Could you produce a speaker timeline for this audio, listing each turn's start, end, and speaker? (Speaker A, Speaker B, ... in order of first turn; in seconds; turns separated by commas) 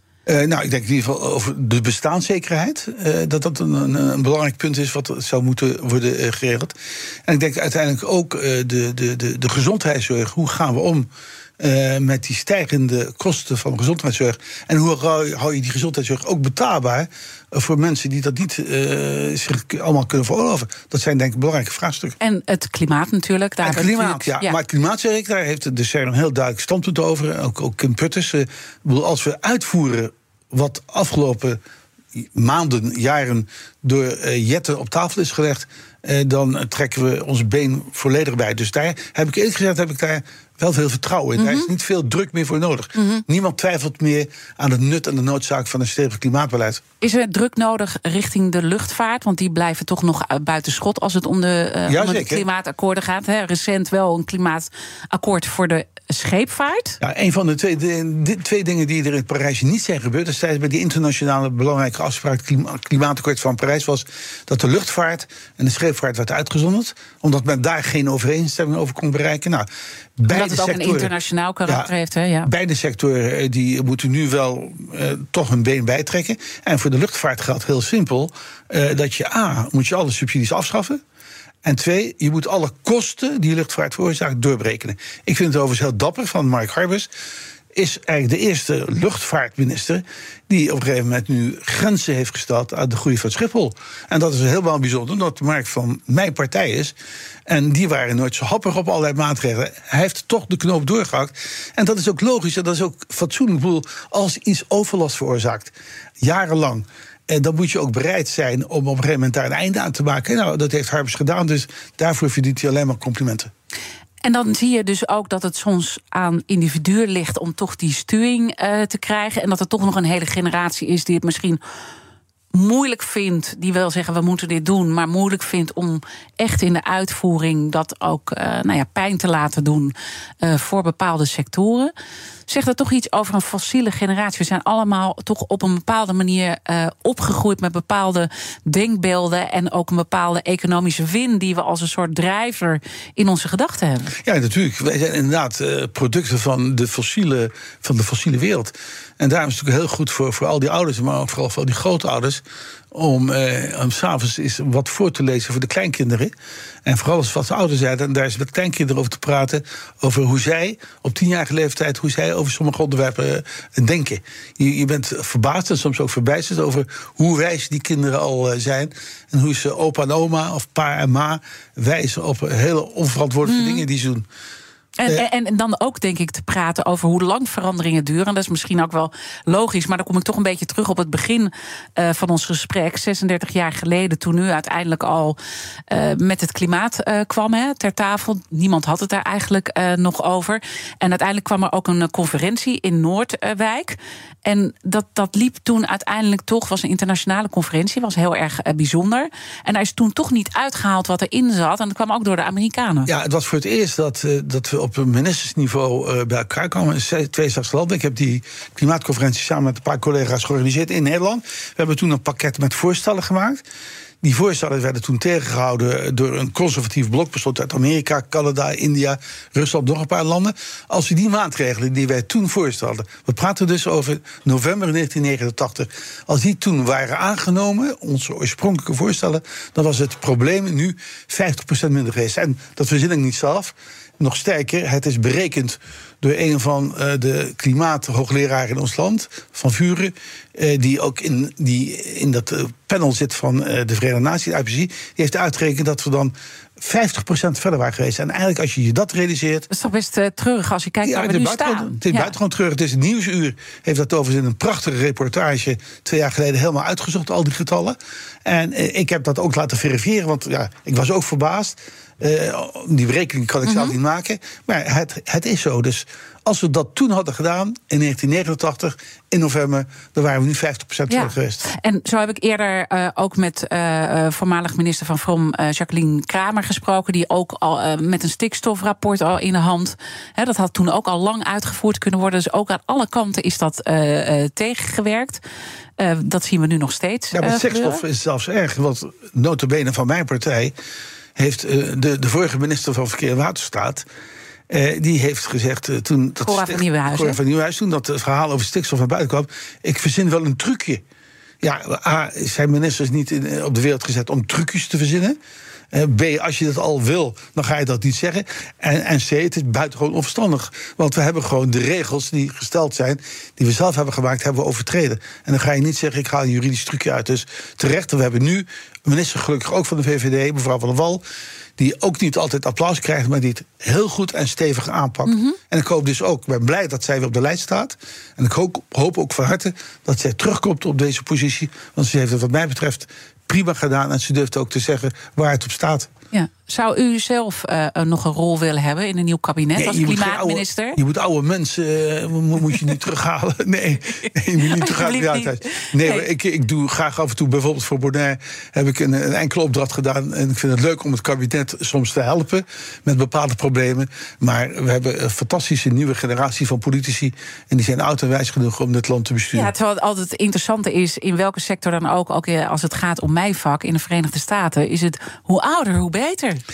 Speaker A: 0.3-22.2, Speaker B: 22.2-24.6, Speaker A: 23.6-31.6, Speaker A: 32.1-46.8, Speaker B: 41.4-41.7, Speaker B: 43.0-43.2, Speaker B: 47.0-57.0, Speaker A: 51.9-52.4, Speaker A: 57.0-69.7, Speaker A: 70.2-71.1, Speaker B: 70.3-72.5, Speaker A: 71.7-71.9, Speaker A: 72.5-81.0, Speaker A: 81.6-87.1, Speaker A: 87.7-97.0, Speaker A: 97.5-113.5, Speaker B: 114.2-121.6, Speaker B: 122.5-131.9, Speaker B: 132.5-144.1, Speaker A: 144.2-156.3, Speaker A: 156.8-174.3, Speaker B: 173.4-173.8, Speaker B: 175.0-185.4, Speaker B: 185.9-203.1, Speaker A: 203.1-213.6, Speaker A: 214.2-249.7, Speaker B: 249.7-252.3, Speaker A: 251.0-271.6, Speaker B: 263.6-264.0, Speaker B: 271.1-285.4, Speaker B: 286.0-288.0, Speaker A: 287.3-290.7, Speaker A: 291.4-294.1, Speaker A: 294.7-301.0, Speaker B: 296.4-297.4, Speaker A: 301.6-305.4, Speaker A: 305.9-321.2, Speaker A: 321.8-336.1, Speaker B: 325.2-325.6, Speaker B: 336.3-341.0, Speaker A: 339.8-359.7, Speaker B: 344.6-346.2, Speaker B: 359.5-366.6